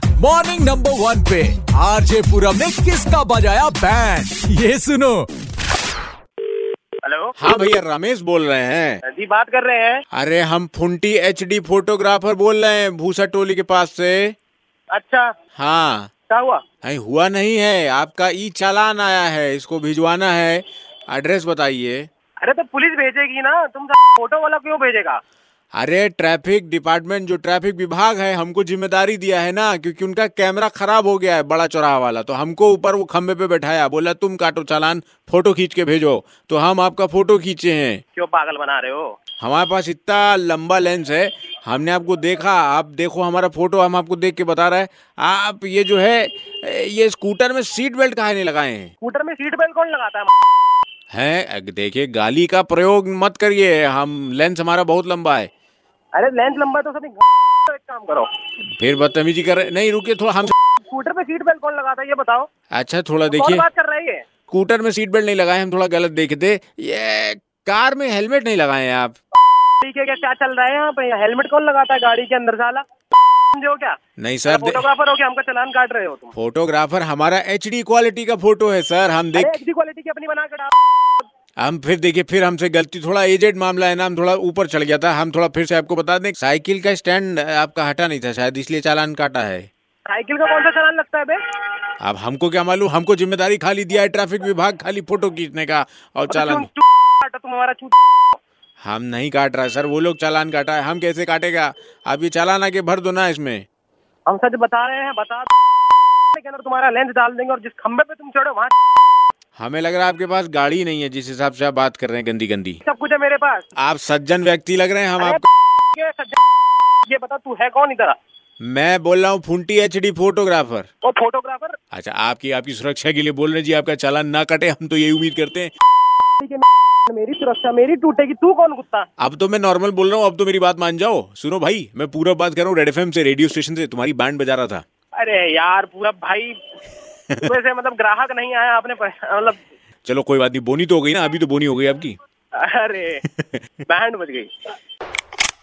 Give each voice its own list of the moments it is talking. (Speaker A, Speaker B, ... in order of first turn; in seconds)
Speaker A: 0.2-5.3
Speaker B: 7.0-7.3, 9.0-10.0, 14.9-15.3, 16.3-16.6, 22.4-25.2, 38.1-39.1, 49.0-50.3, 56.1-58.3, 60.8-62.5, 63.3-64.2, 69.8-72.8, 73.5-74.0, 74.5-76.3, 79.3-80.7, 90.1-91.4, 96.3-97.9, 104.3-105.5, 106.3-108.7, 112.8-113.6, 115.2-116.4, 117.0-118.2, 121.0-121.8, 126.4-129.1, 135.2-136.6, 137.4-139.6, 142.6-143.2, 143.9-144.5
Speaker C: 7.4-9.0, 10.1-14.3, 15.6-16.1, 16.8-22.1, 25.7-38.0, 39.4-48.9, 51.1-55.5, 58.7-60.5, 62.7-63.6, 64.5-69.2, 74.2-74.8, 76.3-79.6, 81.6-89.7, 92.0-96.7, 98.8-103.6, 109.6-112.8, 113.8-115.4, 118.6-120.9, 121.9-125.7, 129.2-134.8, 140.1-142.2